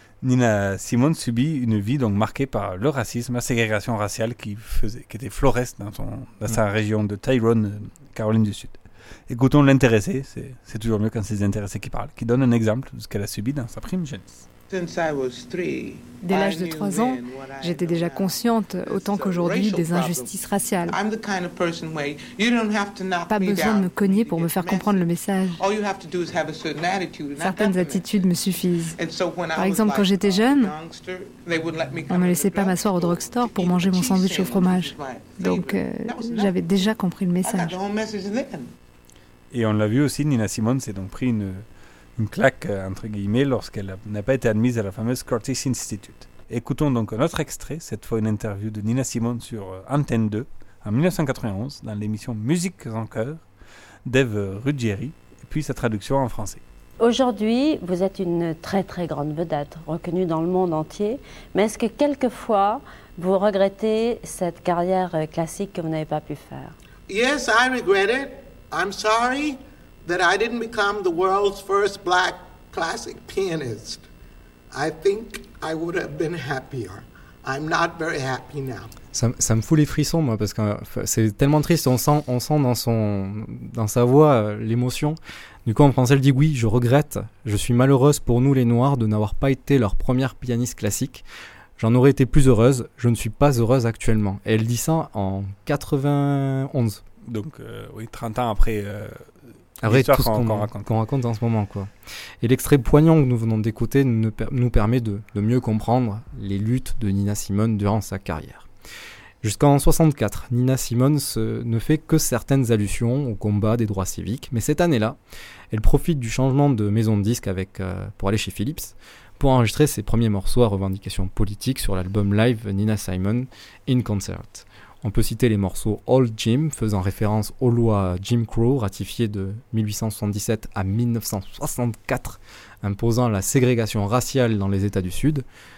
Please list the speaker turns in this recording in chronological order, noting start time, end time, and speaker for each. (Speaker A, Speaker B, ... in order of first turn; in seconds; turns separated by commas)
Speaker A: 0.2-14.4, Speaker B: 14.7-28.3, Speaker C: 16.2-21.0, Speaker C: 23.3-25.6, Speaker C: 27.4-29.0, Speaker B: 28.9-36.6, Speaker C: 29.5-30.7, Speaker C: 32.1-37.8, Speaker B: 37.4-38.7, Speaker A: 39.5-41.6, Speaker A: 42.2-53.4, Speaker A: 54.0-56.6, Speaker D: 57.0-66.7, Speaker B: 67.1-74.0, Speaker B: 74.7-78.9, Speaker E: 79.1-91.2, Speaker E: 91.8-97.0, Speaker A: 97.2-99.2, Speaker E: 99.8-101.9, Speaker A: 99.8-100.9, Speaker E: 102.4-108.7, Speaker E: 109.4-115.2, Speaker E: 115.7-135.4